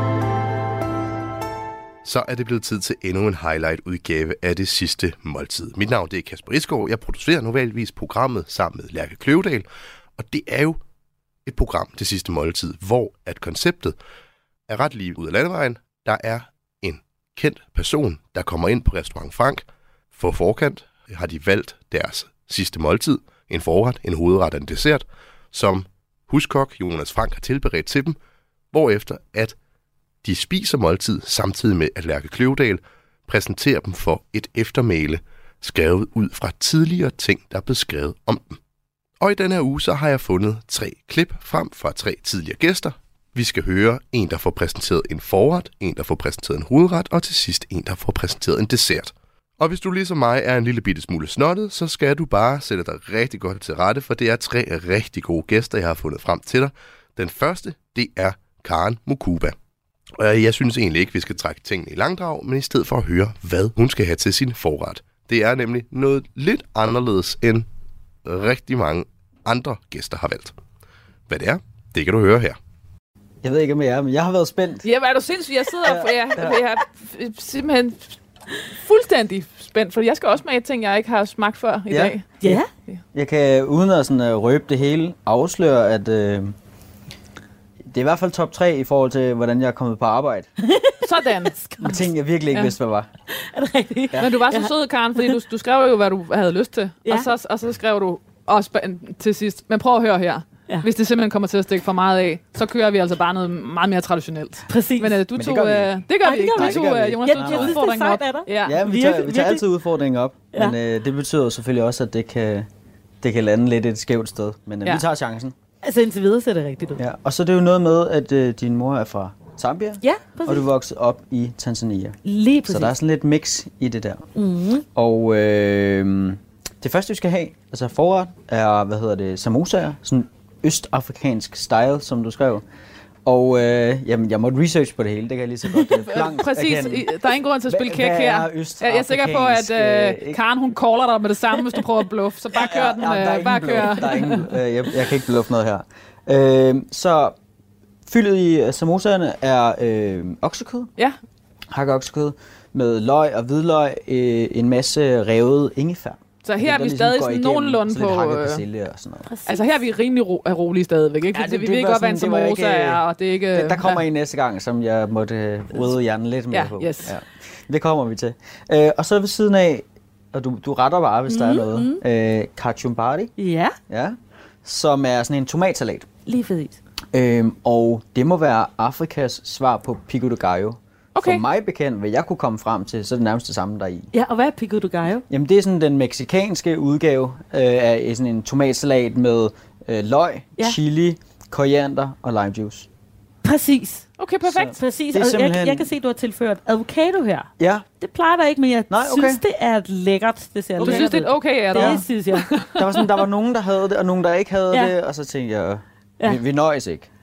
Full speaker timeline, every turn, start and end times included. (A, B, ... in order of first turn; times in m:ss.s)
0:02.0-0:10.8 A
0:11.4-0:14.0 A
0:14.7-0:28.2 A
0:28.7-0:29.6 A
0:30.2-0:38.6 A
0:39.2-0:59.5 A
1:00.2-1:07.6 A
1:08.2-1:10.5 A
1:11.3-1:12.6 A
1:13.4-1:14.9 B
1:14.8-1:22.4 C
1:15.8-1:16.6 B
1:21.9-1:22.6 B
1:22.4-1:22.7 D
1:23.1-1:26.5 B
1:27.9-1:30.5 B
1:30.6-1:32.0 D
1:31.0-1:31.6 C
1:31.8-1:33.1 B
1:33.3-1:35.4 D
1:34.2-1:48.8 C
1:37.0-1:37.3 D
1:44.7-1:45.2 D
1:45.3-1:47.8 B
1:46.2-1:49.6 D
1:48.6-1:52.7 B
1:53.2-1:55.6 B
1:55.8-1:57.0 D
1:57.0-2:04.3 B
2:00.0-2:00.7 D
2:02.2-2:02.9 D
2:04.4-2:04.8 D
2:04.9-2:12.6 B
2:13.2-2:17.1 B
2:15.8-2:24.5 C
2:17.7-2:20.4 B
2:22.5-2:27.4 B
2:28.0-2:30.9 B
2:31.7-2:39.3 B
2:36.4-2:38.6 C
2:39.3-2:39.6 D
2:39.4-2:44.0 C
2:41.3-2:53.3 B
2:46.5-2:47.1 C
2:53.4-2:53.7 D
2:53.9-2:56.1 B
2:56.3-2:56.8 D
2:57.1-3:04.1 B
3:01.1-3:01.4 C
3:04.1-3:05.2 D
3:05.3-3:12.9 B
3:13.4-3:14.0 D
3:14.2-3:14.7 C
3:14.4-3:15.9 B
3:14.7-3:17.5 D
3:17.6-3:17.9 B
3:18.0-3:22.8 D
3:18.9-3:19.4 B
3:20.8-3:22.8 C
3:22.8-3:27.1 B